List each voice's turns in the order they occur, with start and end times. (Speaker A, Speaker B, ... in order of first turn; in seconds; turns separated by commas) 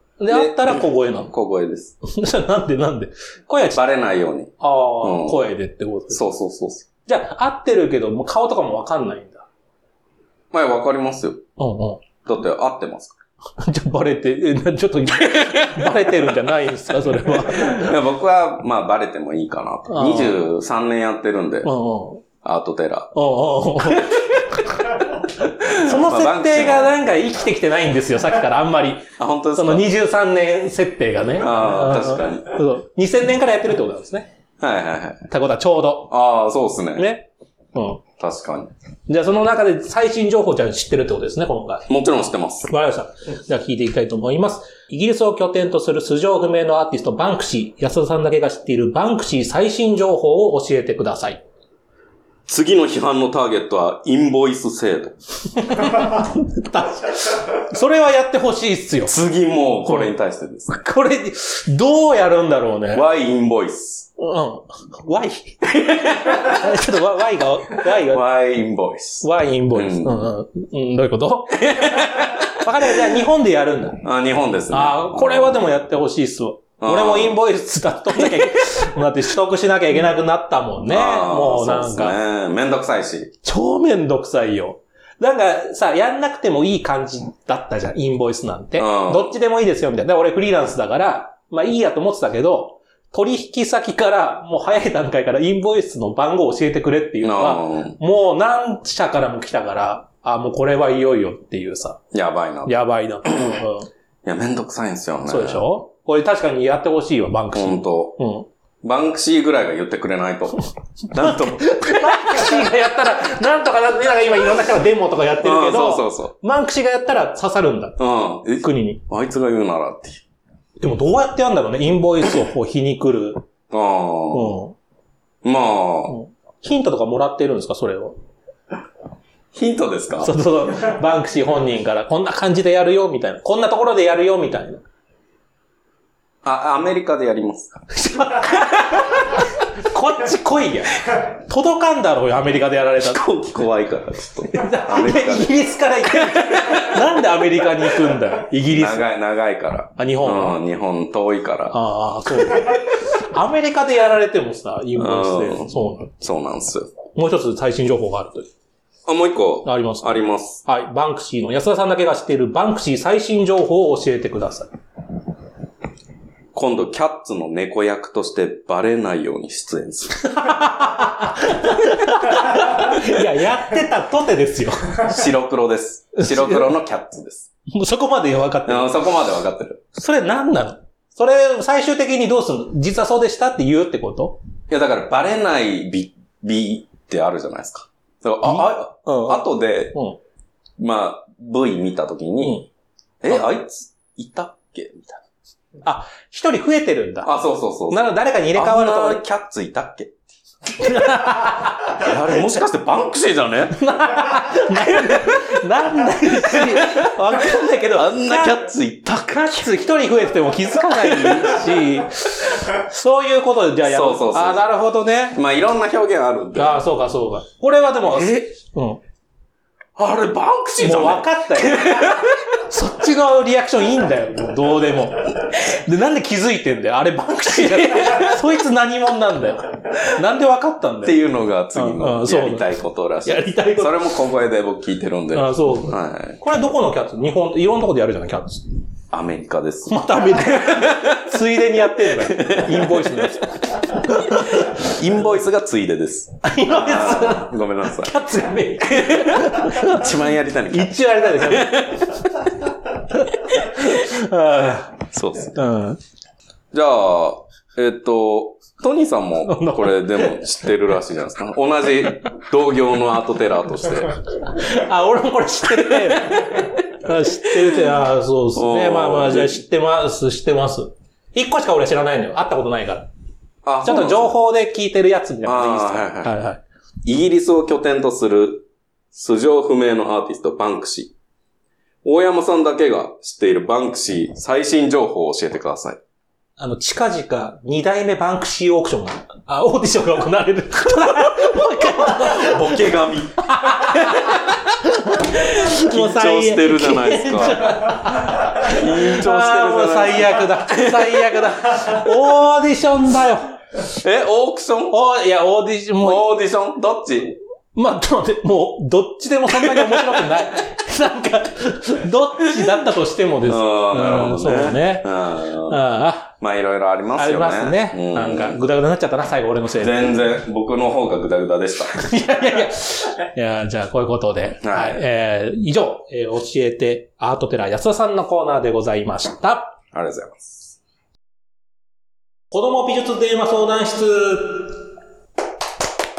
Speaker A: 0.2-1.3, Speaker B: 0.3-2.0, Speaker A: 2.0-3.8, Speaker B: 3.7-5.4, Speaker A: 4.6-6.2, Speaker B: 6.1-6.8, Speaker A: 7.0-9.4, Speaker B: 10.5-11.5, Speaker A: 11.6-12.0, Speaker B: 12.2-13.2, Speaker A: 13.6-17.9, Speaker B: 15.2-16.0, Speaker B: 17.3-21.7, Speaker A: 19.9-20.4, Speaker A: 21.6-22.2, Speaker B: 22.4-23.1, Speaker A: 23.1-34.3, Speaker B: 23.8-24.4, Speaker B: 25.6-26.9, Speaker B: 29.2-29.9, Speaker B: 31.4-32.6, Speaker B: 34.6-35.3, Speaker A: 35.3-36.1, Speaker B: 36.1-37.1, Speaker A: 36.9-38.0, Speaker B: 38.2-38.7, Speaker A: 39.1-41.9, Speaker B: 41.9-42.7, Speaker A: 42.7-51.4, Speaker B: 52.5-55.1, Speaker A: 55.6-59.1, Speaker B: 59.0-60.7, Speaker A: 59.9-60.1, Speaker A: 60.7-63.0, Speaker B: 62.9-64.1, Speaker A: 64.2-68.2, Speaker B: 65.7-66.8, Speaker B: 67.9-70.2, Speaker A: 69.2-74.0, Speaker B: 71.6-72.7, Speaker B: 74.0-75.7, Speaker A: 74.7-82.2, Speaker B: 76.8-77.4, Speaker B: 78.1-78.5, Speaker B: 80.8-83.3, Speaker A: 83.4-102.0, Speaker B: 88.8-89.3, Speaker B: 97.2-98.0, Speaker B: 102.1-102.7, Speaker A: 102.7-103.9, Speaker B: 103.3-103.6, Speaker B: 104.2-105.7, Speaker A: 105.3-108.5, Speaker B: 107.5-108.2, Speaker B: 108.8-112.6, Speaker A: 111.2-118.0, Speaker B: 115.4-116.3, Speaker B: 118.0-120.2, Speaker A: 118.6-119.0, Speaker A: 120.8-123.4, Speaker B: 123.7-124.6, Speaker A: 124.3-124.8, Speaker B: 125.4-126.2, Speaker A: 126.1-128.2, Speaker B: 129.5-130.3, Speaker A: 130.2-134.8, Speaker B: 136.4-137.8, Speaker A: 137.9-143.2, Speaker B: 143.0-147.0, Speaker A: 144.5-149.1, Speaker B: 148.7-151.8, Speaker A: 150.0-150.6, Speaker A: 151.7-156.1, Speaker B: 154.9-156.9, Speaker A: 157.1-158.5, Speaker B: 159.1-160.6, Speaker A: 159.6-164.7, Speaker B: 166.5-170.5, Speaker A: 170.2-175.1, Speaker B: 175.0-177.5, Speaker A: 176.2-176.7, Speaker A: 177.7-178.9, Speaker B: 178.6-179.8, Speaker A: 179.9-184.4, Speaker B: 184.7-190.0, Speaker A: 188.4-190.2, Speaker B: 190.8-192.6, Speaker A: 192.4-192.7, Speaker B: 193.2-195.2, Speaker A: 195.8-197.3, Speaker B: 197.2-200.1, Speaker A: 197.9-199.2, Speaker A: 200.8-202.4, Speaker B: 201.9-203.8, Speaker A: 203.7-215.4, Speaker B: 204.7-205.6, Speaker B: 206.2-209.4, Speaker B: 210.8-211.8, Speaker B: 213.8-214.7, Speaker B: 215.3-216.8, Speaker A: 216.5-219.0, Speaker B: 218.1-218.4, Speaker B: 219.9-222.4, Speaker A: 220.8-231.2, Speaker B: 227.7-228.3, Speaker B: 231.0-236.4, Speaker A: 231.7-232.7, Speaker A: 233.2-234.1, Speaker A: 235.3-238.7, Speaker B: 239.1-241.4, Speaker A: 239.9-245.0, Speaker B: 242.2-243.3, Speaker B: 244.3-248.1, Speaker A: 246.4-250.1, Speaker B: 248.8-252.2, Speaker A: 250.7-256.0, Speaker B: 255.1-255.6, Speaker B: 256.7-264.2, Speaker A: 259.4-260.5, Speaker A: 264.4-273.1, Speaker B: 265.7-266.7, Speaker B: 267.4-267.8, Speaker B: 268.5-269.6, Speaker B: 273.6-274.4, Speaker A: 273.8-276.6, Speaker B: 275.4-276.4, Speaker B: 277.0-281.1, Speaker B: 282.0-286.0, Speaker A: 286.6-292.9, Speaker B: 291.9-294.6, Speaker A: 293.5-303.6, Speaker B: 295.2-301.9, Speaker B: 303.9-305.0, Speaker A: 304.9-306.2, Speaker B: 306.0-307.4, Speaker A: 307.7-316.3, Speaker B: 309.5-310.3, Speaker B: 313.4-315.8, Speaker B: 316.4-318.6, Speaker A: 317.2-320.1, Speaker B: 319.8-321.9, Speaker A: 321.9-329.8, Speaker B: 324.6-325.0, Speaker B: 329.9-330.8, Speaker A: 332.5-334.8